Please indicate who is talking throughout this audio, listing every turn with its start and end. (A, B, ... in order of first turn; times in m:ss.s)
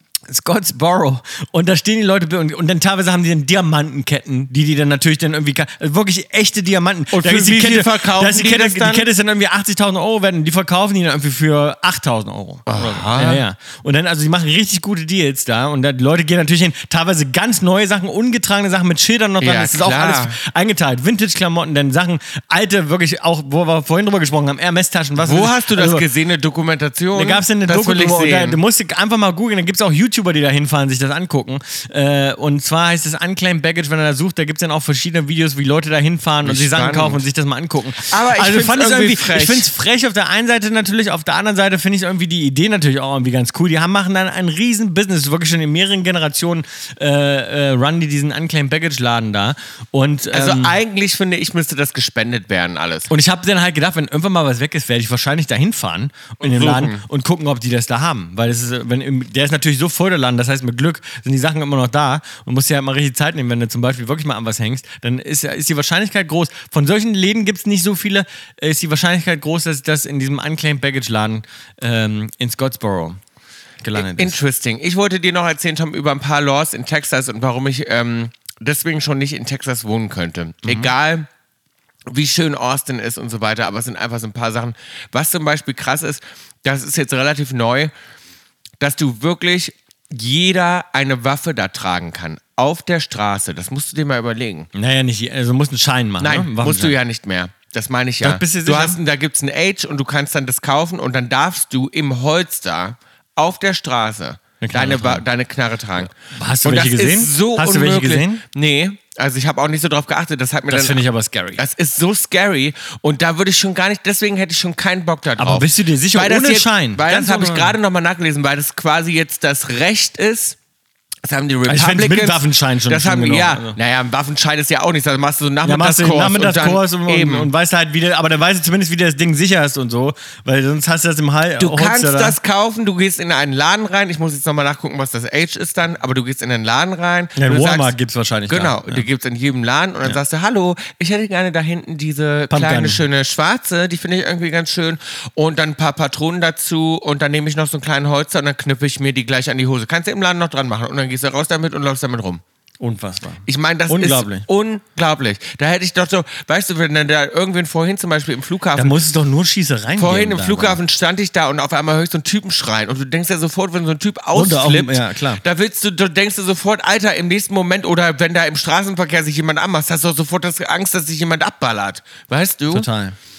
0:00.3-0:26.0 A
0:07.1-0:09.1 B
0:12.7-0:13.4 B
0:19.4-0:20.4 B
0:25.2-0:28.6 B
0:27.1-0:50.8 A
0:36.4-0:37.2 B
0:38.0-0:39.7 B
0:50.3-0:53.1 B
0:53.1-1:13.2 A
0:56.4-0:57.0 B
1:13.8-1:14.4 A
1:13.9-1:21.3 B
1:20.6-1:20.9 A
1:22.1-1:27.9 B
1:28.8-1:34.7 B
1:34.7-1:37.0 A
1:36.2-1:51.0 B
1:38.2-1:39.0 A
1:44.6-1:45.2 A
1:46.1-1:48.4 A
1:50.7-1:51.6 A
1:51.6-2:00.6 B
1:55.4-1:57.7 A
2:01.2-2:07.5 B
2:01.6-2:03.8 A
2:05.6-2:12.4 A
2:11.6-2:17.9 B
2:17.4-2:19.0 A
2:18.5-2:32.4 B
2:22.5-2:23.0 A
2:32.8-2:34.4 A
2:33.4-2:39.0 B
2:38.8-2:40.8 A
2:40.0-2:52.9 B
2:44.3-2:45.4 A
2:52.7-2:53.2 A